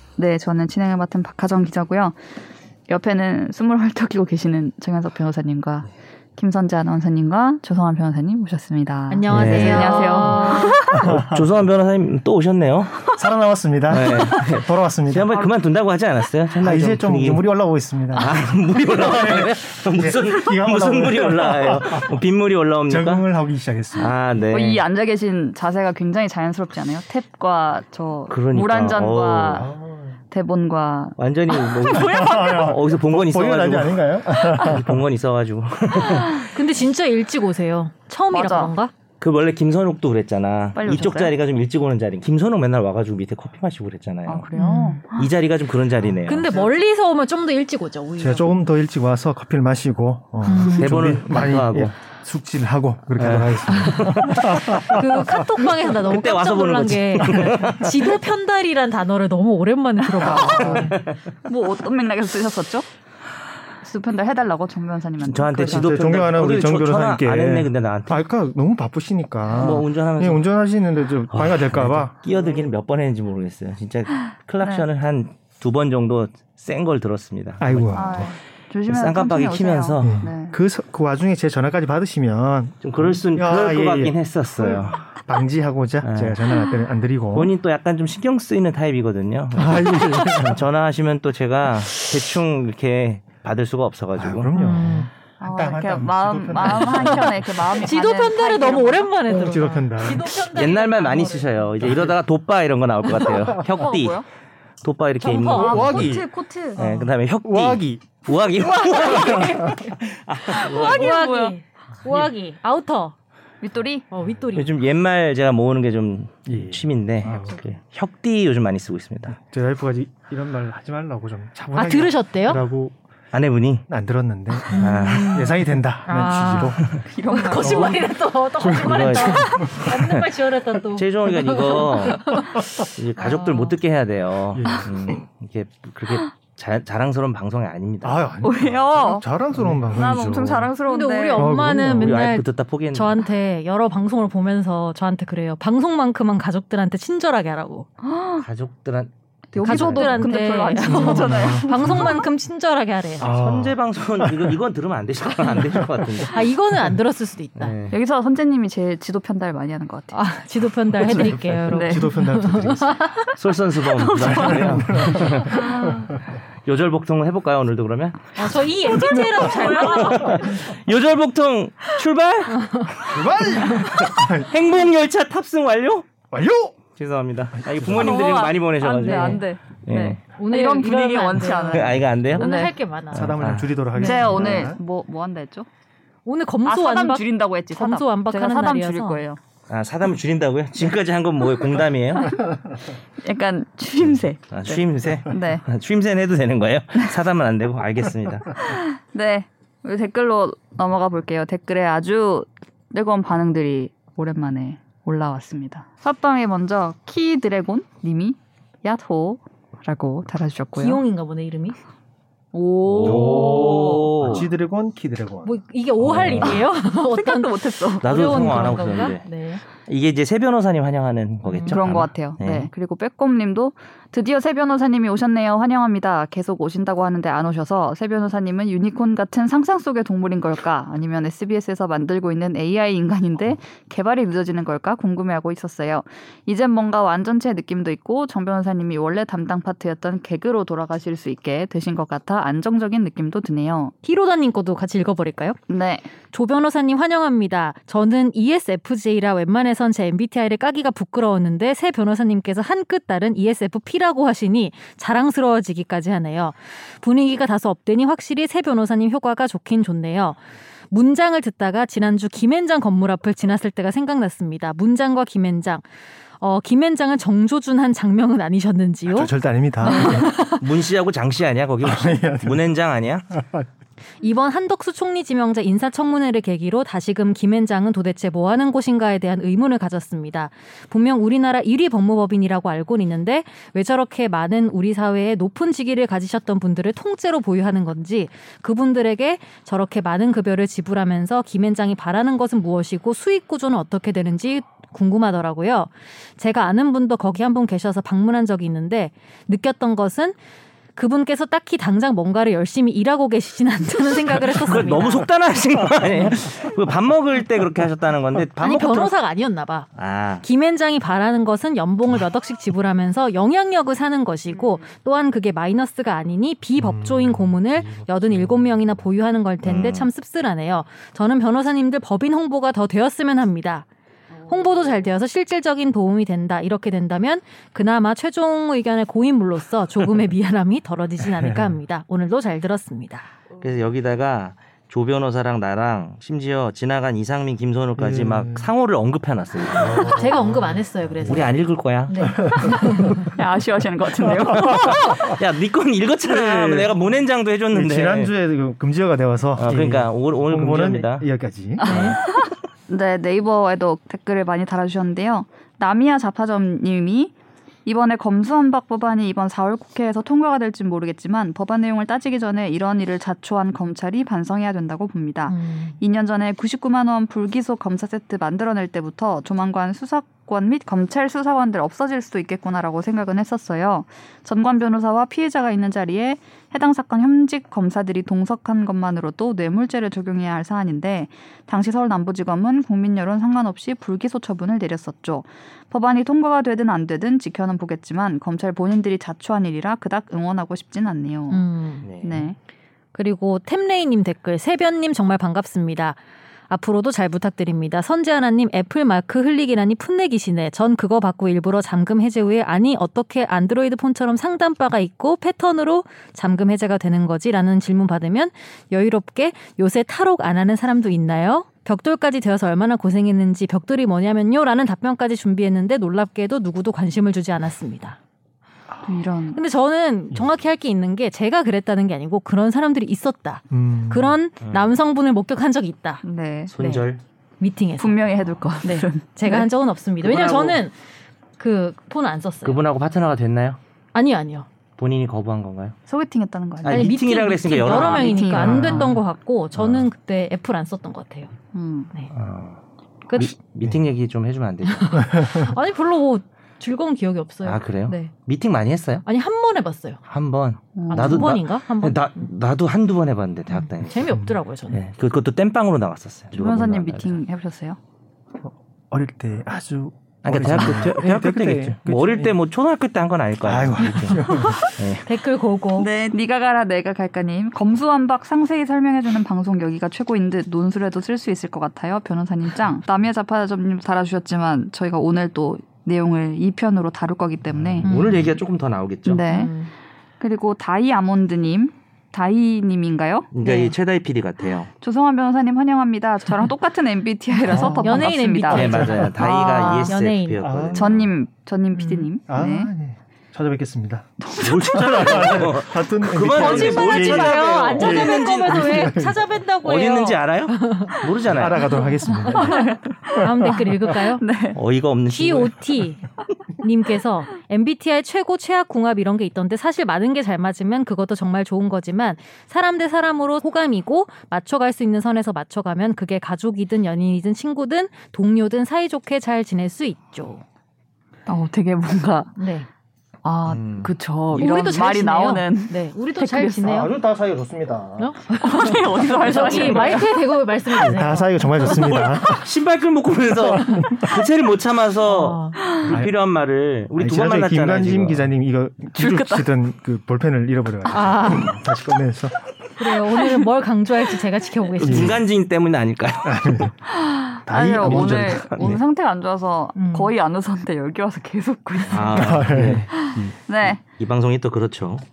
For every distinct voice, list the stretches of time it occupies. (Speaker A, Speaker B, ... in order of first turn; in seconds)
Speaker A: 0.2-2.2, 2.9-11.1, 24.5-29.7, 30.3-32.8, 36.0-36.5, 38.3-38.8, 40.8-41.4, 44.3-45.3, 60.2-60.8, 61.5-62.9, 63.8-66.2, 77.9-80.6, 95.4-99.1, 103.7-104.2, 105.5-106.8, 108.9-109.3, 110.5-111.5, 113.6-114.1, 117.3-117.6, 125.1-125.5, 127.0-128.1, 133.2-133.8, 138.4-139.3, 139.9-141.5, 148.0-148.5, 149.5-152.2, 157.9-160.2, 161.1-162.1, 163.9-166.1, 169.3-170.4, 177.9-182.7, 183.9-185.7, 186.7-189.4, 192.2-192.4, 193.2-195.6, 198.6-211.0, 212.5-214.2, 217.1-218.8, 221.7-243.9, 245.7-246.1, 314.6-314.8, 342.1-345.0, 351.8-357.3, 357.9-391.7, 392.2-392.6, 419.1-419.6, 426.2-427.1, 428.0-429.7, 436.1-437.1, 437.8-439.2, 441.7-442.1, 451.0-451.6, 456.5-458.0, 464.5-464.9, 466.0-478.1, 479.2-479.7, 480.4-483.9, 485.0-490.1, 490.9-492.9, 494.4-495.6, 502.5-503.8, 504.4-504.8, 521.5-522.5, 523.4-527.0, 528.5-530.4, 535.8-536.1, 539.2-539.7, 547.1-554.0
Speaker B: 9.1-10.8, 36.4-38.9, 44.5-45.0, 46.3-48.5, 50.5-50.9, 54.7-61.0, 94.5-95.1, 97.8-102.0, 105.2-106.0, 106.8-107.1, 108.7-109.9, 110.5-113.1, 114.1-114.8, 121.7-122.6, 124.7-132.6, 140.8-147.9, 149.6-153.3, 156.3-157.8, 160.1-163.2, 168.4-170.8, 172.6-172.9, 179.0-179.4, 180.4-183.4, 183.9-184.4, 186.2-189.2, 210.8-211.8, 215.4-219.6, 221.4-221.8, 244.0-245.6, 246.3-260.4, 260.9-265.9, 266.4-270.6, 274.2-300.4, 301.0-305.3, 308.6-309.9, 310.4-323.9, 324.5-333.3, 339.9-341.5, 342.1-343.2, 351.9-352.2, 365.5-366.0, 391.5-392.1, 393.1-396.2, 396.7-418.2, 419.5-426.2, 427.6-428.2, 428.8-431.0, 431.6-432.8, 434.1-434.7, 436.9-441.5, 444.9-448.3, 449.2-450.2, 451.1-452.3, 453.7-455.0, 465.2-466.1, 478.0-478.5, 479.5-479.9, 488.0-490.6, 491.9-492.3, 496.5-501.2, 501.9-504.4, 505.3-506.3, 506.8-520.6, 522.6-522.9, 524.6-527.1, 528.2-532.3, 535.3-535.8, 541.1-541.8, 543.0-545.4, 550.0-550.3
Speaker C: 9.3-9.7, 10.9-11.5, 13.2-15.3, 16.6-22.2, 22.9-24.1, 29.6-30.2, 31.9-35.0, 48.2-55.4, 60.4-60.9, 65.5-72.2, 77.6-78.3, 80.0-87.5, 89.5-90.6, 94.2-97.8, 99.3-100.4, 105.5-106.3, 106.8-108.2, 109.0-110.0, 116.5-117.6, 119.3-122.9, 123.9-126.9, 127.6-128.0, 128.6-129.9, 134.5-135.2, 138.0-140.7, 141.3-142.2, 149.8-150.1, 150.8-152.2, 153.2-154.6, 155.5-156.0, 161.0-163.0, 164.2-166.1, 169.1-169.5, 173.1-174.5, 176.3-176.8, 177.6-178.2, 183.1-184.8, 213.0-215.5, 269.1-270.3, 271.8-272.6, 273.3-273.7, 316.8-319.0, 331.2-331.8, 338.0-338.7, 339.7-341.5, 342.2-343.3, 344.2-345.3, 346.3-347.0, 347.7-351.9, 418.9-419.2, 423.7-424.4, 438.6-439.2, 445.2-445.7, 454.3-454.6, 458.6-462.6, 463.6-464.9, 477.8-478.1, 487.6-488.3, 490.6-491.3, 492.5-499.4, 501.5-503.0, 523.7-524.1, 526.8-528.4, 530.9-532.7, 533.7-534.3, 536.1-536.4, 537.2-542.5, 545.0-545.4, 546.5-546.9, 547.7-549.0, 552.3-553.5
Speaker D: 9.3-13.2, 13.9-17.4, 18.1-23.3, 24.0-24.8, 28.3-29.7, 31.2-36.5, 39.2-44.5, 45.1-46.6, 50.6-51.9, 53.2-54.9, 55.9-58.1, 60.2-61.2, 65.2-68.2, 69.5-70.4, 71.3-80.3, 82.8-85.0, 86.0-86.4, 87.3-94.5, 100.5-104.2, 104.8-106.1, 106.8-111.2, 112.1-112.3, 114.5-119.4, 123.3-123.9, 124.7-125.5, 128.7-130.3, 130.9-138.2, 139.6-139.8, 141.8-143.2, 148.4-149.1, 149.7-150.2, 153.2-156.4, 157.6-157.9, 163.4-165.7, 166.7-168.5, 169.9-176.1, 177.0-180.2, 181.7-183.8, 184.4-184.7, 189.7-192.4, 194.5-198.7, 212.9-214.5, 216.0-216.7, 218.0-219.3, 219.9-222.7, 270.0-273.3, 304.4-309.1, 310.0-310.4, 319.6-320.1, 333.6-340.1, 341.2-343.2, 344.4-348.3, 349.6-351.3, 351.9-352.2, 392.0-392.5, 424.6-424.9, 426.7-427.2, 430.2-430.8, 432.6-433.8, 435.0-436.0, 436.8-438.7, 439.8-440.1, 442.3-442.8, 443.3-445.2, 447.6-449.2, 450.3-454.3, 454.9-457.4, 460.4-465.3, 478.0-479.4, 483.5-484.9, 488.7-491.3, 494.5-499.2, 499.8-501.9, 504.7-505.8, 531.8-538.5, 545.0-546.9, 547.9-549.0, 552.1-553.3, 554.0-555.2